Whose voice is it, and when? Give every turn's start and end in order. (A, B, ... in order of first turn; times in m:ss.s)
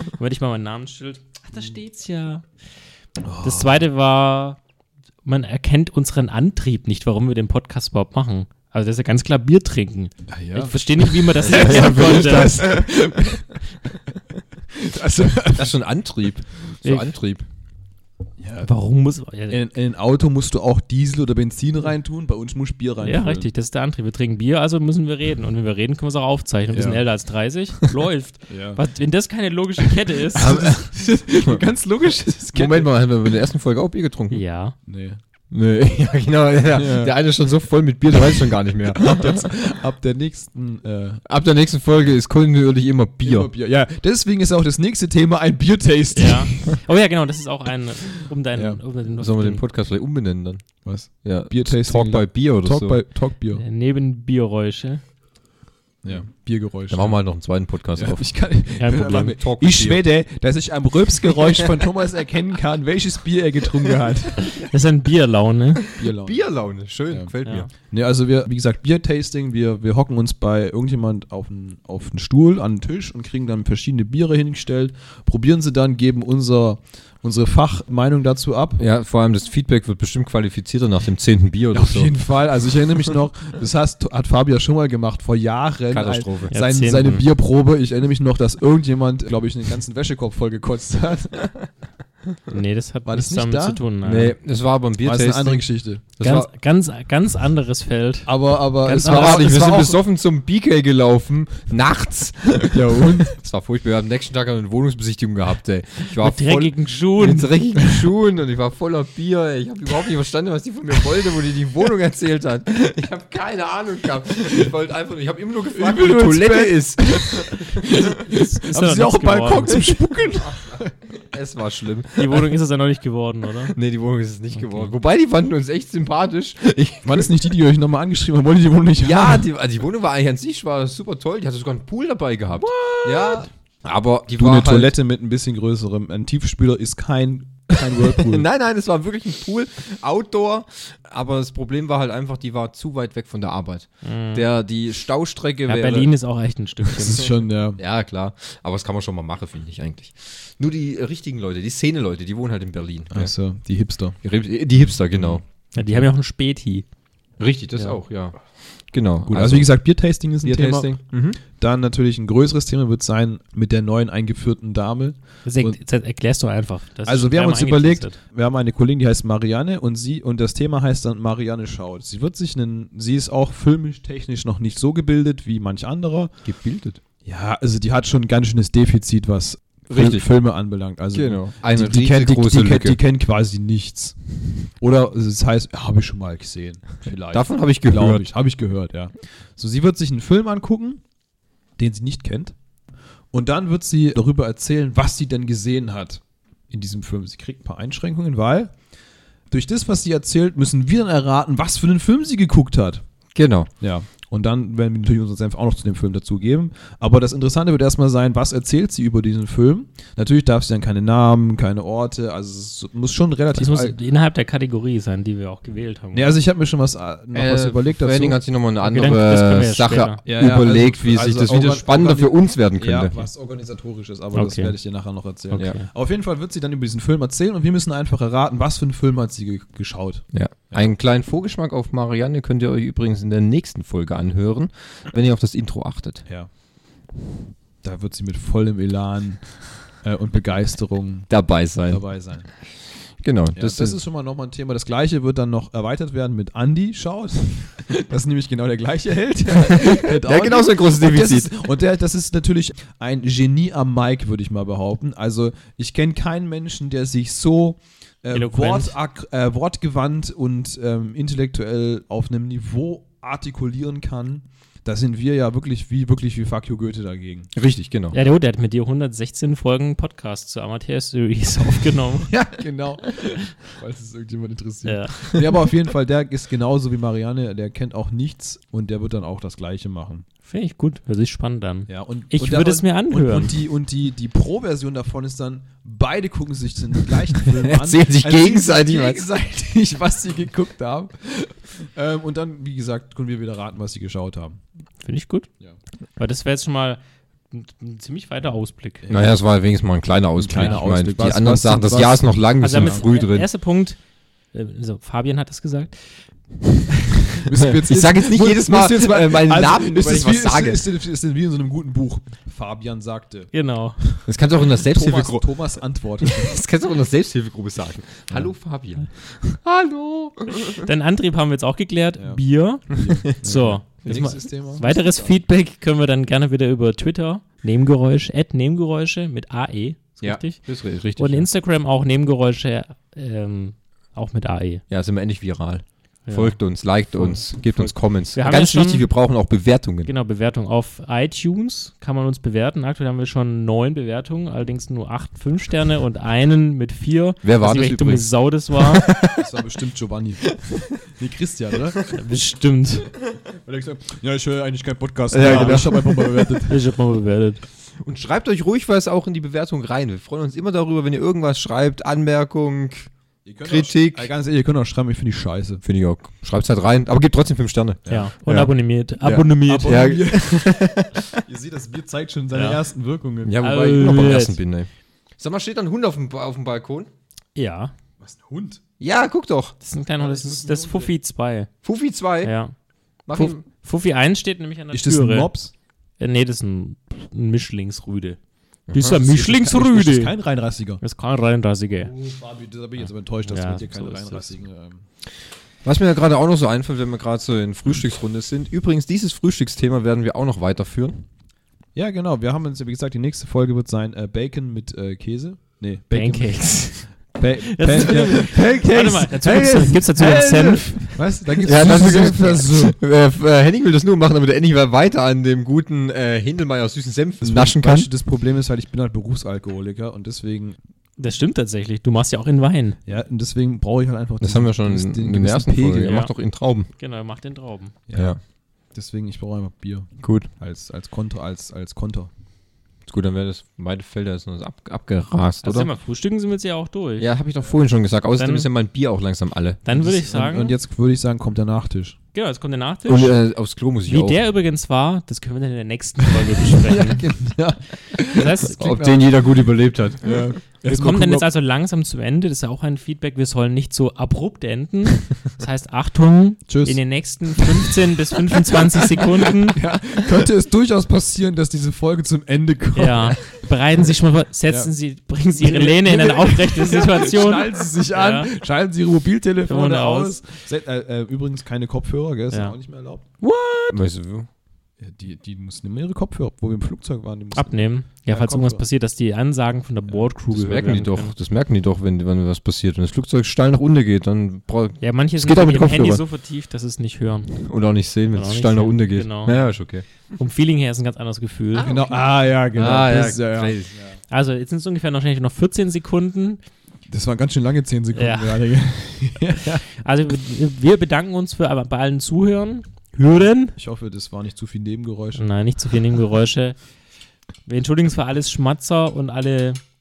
0:00.2-0:02.4 A
0:03.2-0:03.8 B
0:03.4-0:04.6 A
0:05.2-0:12.8 A
0:10.3-0:13.9 B
0:11.4-0:12.8 C
0:14.7-0:15.7 B
0:15.5-0:17.4 C
0:16.8-0:17.1 A
0:18.4-0:18.7 B
0:18.6-0:19.6 A
0:19.5-0:23.5 B
0:23.0-0:30.6 A
0:26.7-0:27.0 B
0:28.5-0:28.8 B
0:30.3-0:32.9 B
0:30.4-0:31.6 C
0:32.5-0:34.4 C
0:34.3-0:34.8 A
0:34.9-0:35.2 B
0:35.5-0:39.4 C
0:36.7-0:37.2 B
0:38.9-0:41.2 B
0:41.2-0:43.5 C
0:43.2-0:46.7 B
0:46.1-0:49.6 A
0:48.5-0:48.8 B
0:49.1-0:53.0 C
0:50.8-0:53.6 B
0:53.5-0:55.0 A
0:56.0-0:57.2 B
0:56.9-0:58.2 C
0:58.0-1:04.5 B
0:58.8-0:59.3 A
0:59.1-1:00.0 C
1:04.5-1:05.9 A
1:05.8-1:07.7 C
1:06.0-1:06.4 B
1:07.1-1:18.8 B
1:18.8-1:22.1 C
1:21.7-1:31.5 B
1:25.9-1:26.5 C
1:26.5-1:27.2 A
1:32.5-1:34.3 A
1:33.1-1:33.8 B
1:34.0-1:35.6 C
1:35.0-1:36.0 B
1:36.2-1:36.5 C
1:36.2-1:39.6 A
1:38.2-1:40.0 B
1:39.0-1:57.9 C
1:42.7-1:43.3 B
1:46.2-1:47.8 A
1:55.7-2:00.9 B
1:58.2-1:59.9 A
2:01.2-2:02.5 C
2:02.2-2:03.7 A
2:03.7-2:07.3 C
2:07.0-2:09.5 B
2:09.0-2:14.9 C
2:12.7-2:13.4 B
2:14.3-2:18.4 B
2:18.0-2:26.1 C
2:24.0-2:24.4 A
2:25.6-2:27.3 A
2:27.0-2:27.8 B
2:27.8-2:33.3 C
2:33.1-2:34.2 B
2:34.2-2:35.4 C
2:35.2-2:36.0 B
2:35.7-2:36.8 A
2:37.4-2:39.8 C
2:39.3-2:45.8 B
2:40.4-2:41.4 C
2:45.4-2:48.2 A
2:47.0-2:56.3 B
2:56.4-2:57.0 C
2:57.2-3:11.0 B
2:59.9-3:00.2 C
3:01.1-3:03.0 C
3:07.3-3:08.2 C
3:11.8-3:12.5 B
3:13.3-3:18.7 B
3:19.5-3:23.0 B
3:23.3-3:23.7 C
3:23.8-3:34.0 B
3:33.5-3:36.4 A
3:36.1-3:38.4 B
3:37.3-3:43.2 C
3:38.8-3:40.2 A
3:40.2-3:50.9 B
3:44.3-3:44.7 A
3:45.5-3:45.9 A
3:50.3-3:56.2 C
3:57.8-4:01.3 B
4:01.3-4:02.0 C
4:01.9-4:02.5 B
4:03.2-4:04.0 C
4:03.6-4:27.5 B
4:09.6-4:11.5 C
4:18.3-4:18.9 A
4:27.5-4:28.2 C
4:28.1-4:32.3 A
4:32.3-4:40.2 B
4:34.8-4:35.4 A
4:40.4-4:43.5 A
4:41.9-4:54.6 B
4:47.5-4:49.2 C
4:55.0-4:55.5 A
4:56.2-4:57.0 A
4:57.5-4:59.0 A
4:59.0-4:59.3 B
4:59.1-5:03.5 C
5:00.4-5:03.0 B
5:02.6-5:04.0 A
5:04.5-5:06.2 A
5:07.4-5:13.5 B
5:07.6-5:10.8 C
5:13.5-5:14.0 A
5:14.2-5:15.5 C
5:14.7-5:16.6 B
5:16.2-5:20.9 C
5:20.7-5:34.8 A
5:22.2-5:25.3 B
5:23.0-5:23.4 C
5:24.0-5:24.4 C
5:30.2-5:31.5 C
5:34.9-5:40.1 C
5:36.3-5:36.6 A
5:38.3-5:39.1 A
5:40.0-5:49.1 A
5:47.4-5:48.2 C
5:48.8-5:49.4 C
5:49.4-5:52.0 B
5:52.1-5:53.1 A
5:53.6-5:56.8 B
5:55.3-5:56.6 C
5:55.4-5:56.0 A
5:56.6-5:57.6 A
5:58.0-6:03.1 C
6:03.4-6:05.8 B
6:03.6-6:04.3 C
6:05.8-6:11.4 C
6:08.0-6:08.3 B
6:08.1-6:10.2 A
6:09.6-6:13.6 B
6:12.5-6:12.8 A
6:13.4-6:17.1 C
6:13.6-6:14.6 A
6:17.6-6:17.9 A
6:18.2-6:18.8 B
6:19.0-6:19.7 C
6:19.8-6:21.7 A
6:20.2-6:21.1 B
6:21.8-6:22.5 C
6:22.4-6:22.7 A
6:23.3-6:23.6 C
6:23.3-6:25.5 A
6:24.9-6:25.7 B
6:26.2-6:28.4 A
6:28.9-6:29.2 C
6:28.9-6:30.3 A
6:29.2-6:31.0 B
6:31.0-6:32.1 A
6:32.0-6:35.0 B
6:33.4-6:34.5 A
6:35.8-6:41.2 C
6:41.9-6:53.0 B
6:46.1-6:51.2 A
6:51.6-6:58.1 C
6:51.8-6:52.3 A
6:57.4-7:00.8 B
7:01.2-7:03.0 A
7:03.0-7:06.2 B
7:04.4-7:06.9 C
7:06.0-7:06.3 A
7:07.0-7:08.0 A
7:08.1-7:08.4 B
7:08.1-7:08.4 C
7:08.9-7:12.3 B
7:10.2-7:10.5 C
7:13.1-7:15.9 C
7:15.6-7:17.3 A
7:17.2-7:19.8 C
7:18.4-7:18.7 A
7:19.8-7:20.7 A
7:19.9-7:22.2 B
7:22.3-7:23.4 A
7:23.0-7:24.4 C
7:24.1-7:27.3 A
7:26.3-7:29.2 B
7:28.1-7:29.2 A
7:28.7-7:30.4 C
7:30.2-7:31.5 B
7:30.8-7:39.8 A
7:36.7-7:37.0 B
7:38.6-7:43.5 B
7:42.9-7:48.5 A
7:45.5-7:53.2 B
7:49.7-7:50.4 A
7:52.5-7:52.8 A
7:53.4-7:54.0 A
7:53.9-7:54.5 C
7:55.0-7:58.8 B
7:57.5-8:01.3 A
8:00.5-8:06.2 C
8:05.0-8:07.6 A
8:07.6-8:10.0 C
8:08.3-8:09.7 A
8:10.4-8:11.9 A
8:11.7-8:13.9 C
8:11.8-8:14.1 B
8:14.3-8:16.6 A
8:17.1-8:19.8 B
8:18.1-8:18.8 A
8:19.8-8:23.7 A
8:23.7-8:25.4 B
8:25.4-8:26.8 A
8:27.6-8:29.8 A